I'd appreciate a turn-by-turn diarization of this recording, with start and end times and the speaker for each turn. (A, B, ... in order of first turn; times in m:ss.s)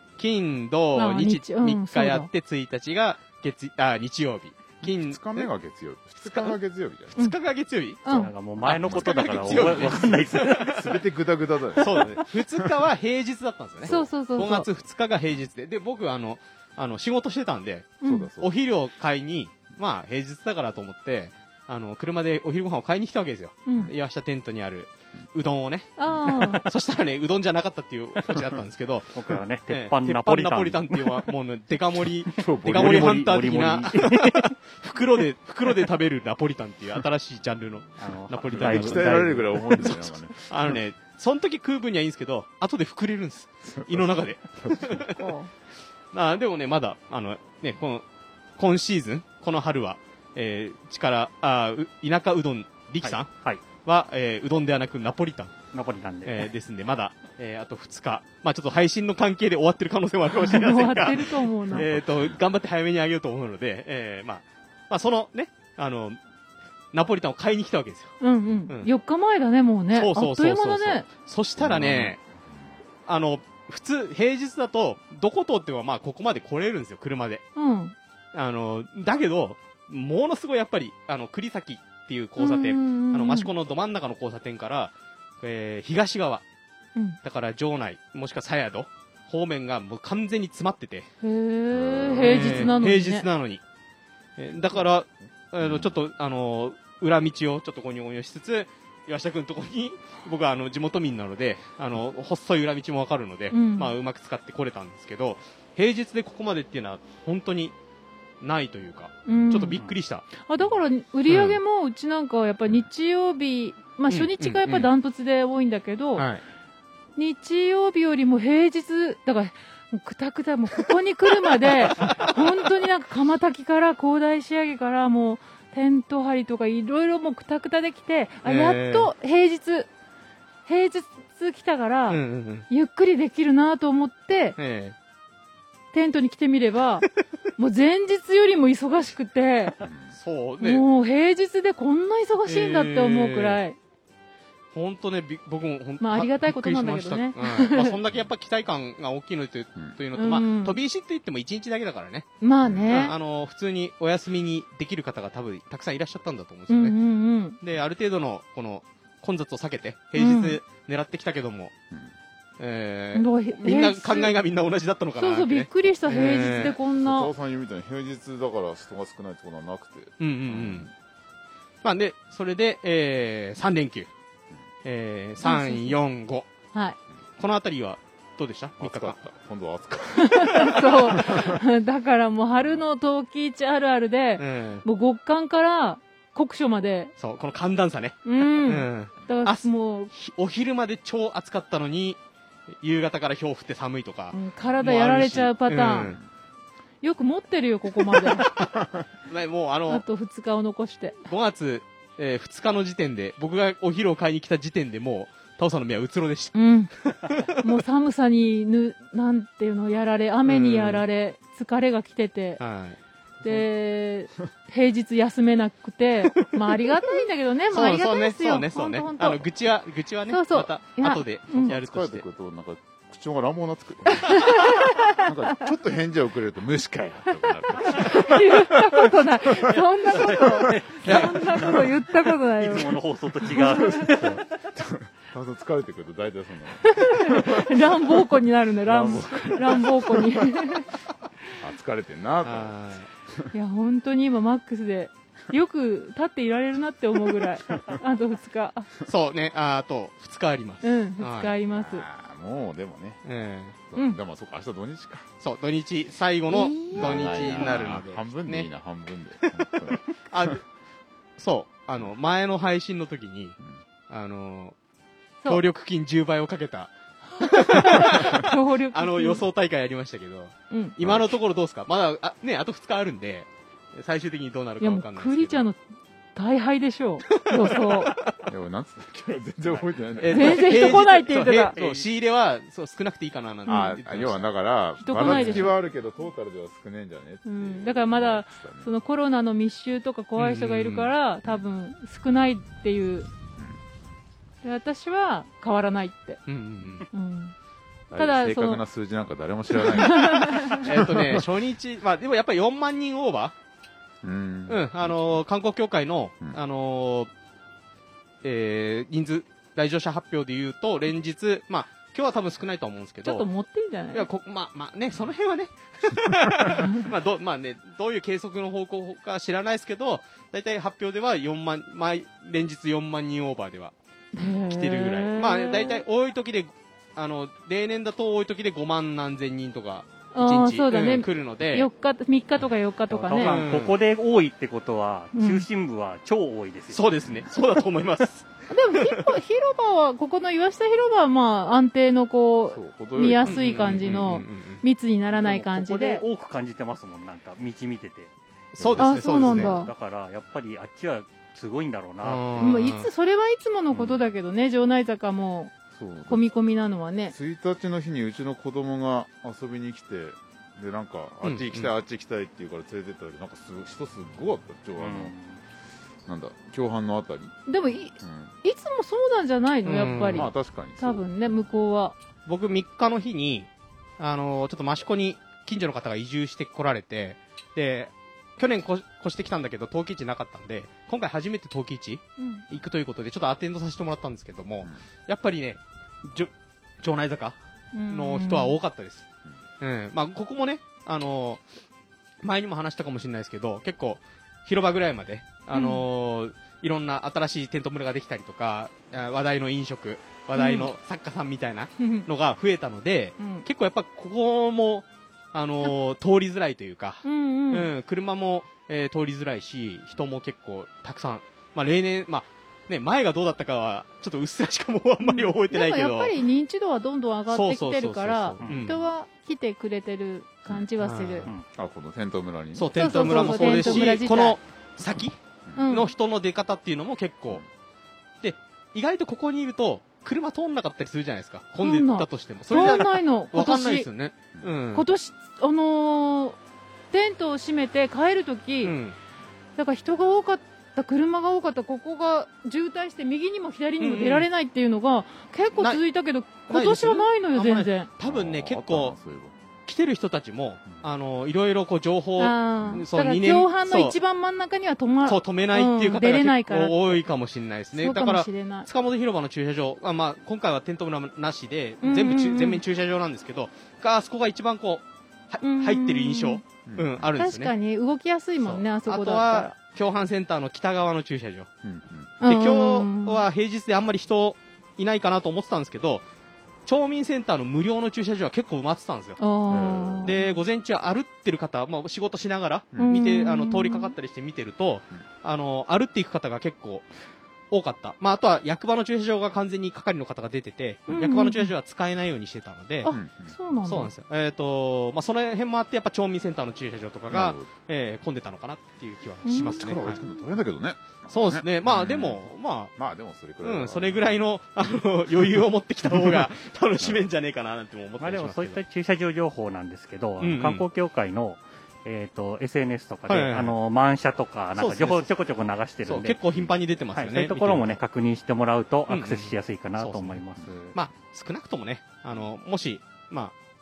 0:00.2-0:05.5 A
0:00.9-0:02.3 B
0:04.8-0:07.2 C
0:06.3-0:06.5 A
0:07.1-0:08.2 A
0:08.0-0:08.3 B
0:08.1-0:11.0 D
0:08.3-0:12.7 C
0:08.8-0:10.8 A
0:11.8-0:29.2 A
0:13.8-0:14.1 C
0:13.8-0:14.6 B
0:18.0-0:18.3 B
0:18.0-0:18.5 C
0:23.6-0:23.9 B
0:26.0-0:26.6 B
0:26.0-0:26.3 C
0:29.1-0:31.3 D
0:29.7-0:45.2 A
0:32.3-0:34.6 D
0:32.4-0:33.2 C
0:38.0-0:39.4 D
0:38.5-0:40.8 C
0:43.7-0:45.1 C
0:45.2-0:45.5 B
0:46.1-0:48.0 A
0:48.6-0:55.5 A
0:53.0-0:53.6 D
0:55.7-0:56.5 D
0:56.2-1:06.2 A
1:00.4-1:01.9 B
1:01.7-1:02.3 C
1:06.9-1:08.2 A
1:08.2-1:11.1 B
1:09.9-1:12.2 A
1:11.6-1:12.2 C
1:13.1-1:17.4 A
1:17.6-1:17.9 B
1:18.3-1:26.4 A
1:22.4-1:23.5 B
1:27.2-1:31.1 A
1:31.2-1:33.3 B
1:31.7-1:32.8 C
1:32.2-1:33.6 A
1:34.4-1:47.7 A
1:35.6-1:35.9 C
1:43.5-1:44.0 B
1:48.4-1:50.3 A
1:49.2-1:56.3 B
1:49.4-1:49.9 D
1:51.3-1:51.6 A
1:54.1-1:54.9 A
1:56.1-1:56.4 A
1:57.2-2:09.9 B
2:02.0-2:02.4 A
2:08.4-2:09.1 A
2:10.6-2:14.6 B
2:12.1-2:12.7 A
2:14.6-2:15.0 A
2:15.9-2:19.8 B
2:19.8-2:20.1 C
2:20.1-2:20.8 A
2:20.6-2:23.8 B
2:22.4-2:23.6 A
2:24.7-2:32.3 A
2:26.0-2:28.0 B
2:30.1-2:30.8 B
2:32.4-2:33.1 B
2:32.6-2:32.9 C
2:32.9-2:37.0 A
2:36.7-2:37.6 B
2:37.6-2:41.7 A
2:40.2-2:40.6 B
2:42.6-2:46.8 A
2:43.1-2:44.3 B
2:45.2-2:47.3 B
2:46.9-2:50.9 C
2:50.2-2:50.9 A
2:51.8-2:54.1 A
2:54.8-2:56.5 A
2:55.4-2:56.0 B
2:56.7-2:57.0 B
2:57.4-2:59.2 A
2:58.8-3:01.6 C
3:00.2-3:07.1 B
3:02.6-3:02.8 C
3:04.4-3:04.8 A
3:07.2-3:12.2 A
3:08.2-3:10.1 B
3:12.8-3:16.2 A
3:14.3-3:16.2 B
3:17.0-3:18.5 B
3:18.4-3:18.7 A
3:19.3-3:20.0 A
3:19.9-3:21.2 B
3:21.2-3:27.6 A
3:26.5-3:26.9 B
3:27.5-3:32.6 B
3:30.4-3:31.0 A
3:32.6-3:33.0 A
3:33.4-3:39.4 B
3:37.7-3:42.2 A
3:40.3-3:41.7 B
3:41.6-3:52.0 C
3:44.3-3:45.3 B
3:47.8-3:53.0 B
3:50.1-3:51.5 D
3:51.0-3:51.4 A
3:52.6-3:54.4 D
3:53.5-4:00.8 C
3:53.5-3:54.4 B
3:56.9-4:00.9 B
4:01.6-4:02.8 C
4:02.4-4:03.1 A
4:03.5-4:08.9 B
4:09.0-4:11.5 A
4:10.8-4:12.0 B
4:11.7-4:13.2 C
4:13.2-4:13.8 A
4:13.9-4:15.3 C
4:15.4-4:18.7 A
4:16.5-4:17.8 B
4:16.9-4:20.5 C
4:20.3-4:20.6 A
4:21.4-4:23.6 A
4:24.1-4:24.8 A
4:25.4-4:35.7 A
4:27.4-4:29.4 B
4:30.7-4:31.0 B
4:31.0-4:31.3 C
4:34.8-4:35.8 B
4:36.3-4:38.1 B
4:37.3-4:38.4 A
4:38.5-4:41.0 C
4:40.2-4:44.5 A
4:40.3-4:41.8 B
4:41.7-4:42.1 D
4:43.6-4:44.0 B
4:43.7-4:48.9 C
4:45.0-4:45.8 B
4:45.2-4:45.7 A
4:47.4-4:53.3 B
4:50.4-4:51.1 A
4:54.6-4:56.4 B
4:56.4-4:57.0 A
4:57.1-4:57.5 B
4:58.1-5:01.4 C
4:58.1-4:58.8 B
4:59.7-5:00.8 B
5:00.8-5:03.5 A
5:04.2-5:05.4 C
5:04.7-5:07.3 A
5:08.4-5:13.5 A
5:13.2-5:14.2 B
5:14.1-5:23.9 A
5:24.3-5:26.0 B
5:24.5-5:31.9 A
5:30.3-5:33.6 B
5:33.1-5:37.0 D
5:33.3-5:34.0 A
5:35.3-5:35.7 B
5:36.9-5:39.2 A
5:38.7-5:46.2 B
5:42.7-5:44.2 C
5:43.4-5:44.8 A
5:45.4-5:48.3 D
5:48.7-5:49.8 A
5:48.8-5:49.6 C
5:49.0-5:49.9 B
5:49.2-5:52.9 D
5:52.2-5:53.1 A
5:52.6-5:55.7 B
5:53.9-5:54.2 C
5:55.9-5:56.4 C
5:56.3-5:57.3 B
5:57.3-6:05.3 C
6:01.4-6:01.9 A
6:05.0-6:05.6 D
6:06.3-6:07.6 C
6:07.7-6:12.1 B
6:08.2-6:08.6 C
6:09.8-6:10.5 A
6:10.0-6:11.3 C
6:12.4-6:29.2 A
6:22.4-6:22.6 B
6:27.9-6:28.8 B
6:29.8-6:31.6 A
6:32.4-6:56.4 A
6:35.7-6:36.0 B
6:40.6-6:40.9 B
6:42.0-6:42.3 B
6:43.4-6:43.6 B
6:47.2-6:47.9 B
6:55.2-7:01.5 B
6:57.5-6:59.0 A
6:58.6-6:58.9 D
7:01.0-7:01.5 A
7:01.7-7:04.1 C
7:02.7-7:07.6 A
7:02.9-7:04.6 B
7:05.8-7:06.1 B
7:08.4-7:15.1 A
7:11.8-7:14.1 B
7:14.9-7:16.6 B
7:17.1-7:19.0 B
7:18.8-7:19.2 A
7:19.8-7:28.1 B
7:24.0-7:24.5 A
7:25.8-7:26.0 A
7:26.7-7:29.2 A
7:28.2-7:29.5 C
7:29.8-7:34.2 A
7:32.4-7:37.2 B
7:32.8-7:33.0 C
7:35.2-7:47.7 A
7:37.9-7:38.9 B
7:42.0-7:42.8 B
7:45.6-7:46.6 B
7:46.8-7:47.3 C
7:47.4-7:49.7 B
7:48.6-7:51.7 A
7:51.8-7:52.3 C
7:52.4-7:53.4 B
7:52.4-7:56.2 A
7:56.8-7:59.4 A
7:59.4-8:00.6 B
7:59.7-8:00.3 C
8:00.2-8:07.0 A
8:03.0-8:04.1 B
8:07.7-8:13.2 A
8:11.1-8:11.7 B
8:13.0-8:14.1 B
8:13.1-8:13.5 C
8:13.8-8:20.2 A
8:17.3-8:17.7 C
8:19.4-8:20.4 B
8:19.7-8:22.4 C
8:21.3-8:22.9 A
8:23.0-8:24.4 C
8:23.6-8:28.8 A
8:26.1-8:26.4 C
8:28.2-8:36.4 D
8:30.4-8:30.8 A
8:33.3-8:33.8 A
8:34.8-8:35.4 A
8:36.0-8:38.0 A
8:37.1-8:41.0 D
8:39.1-8:40.4 A
8:40.9-8:43.5 A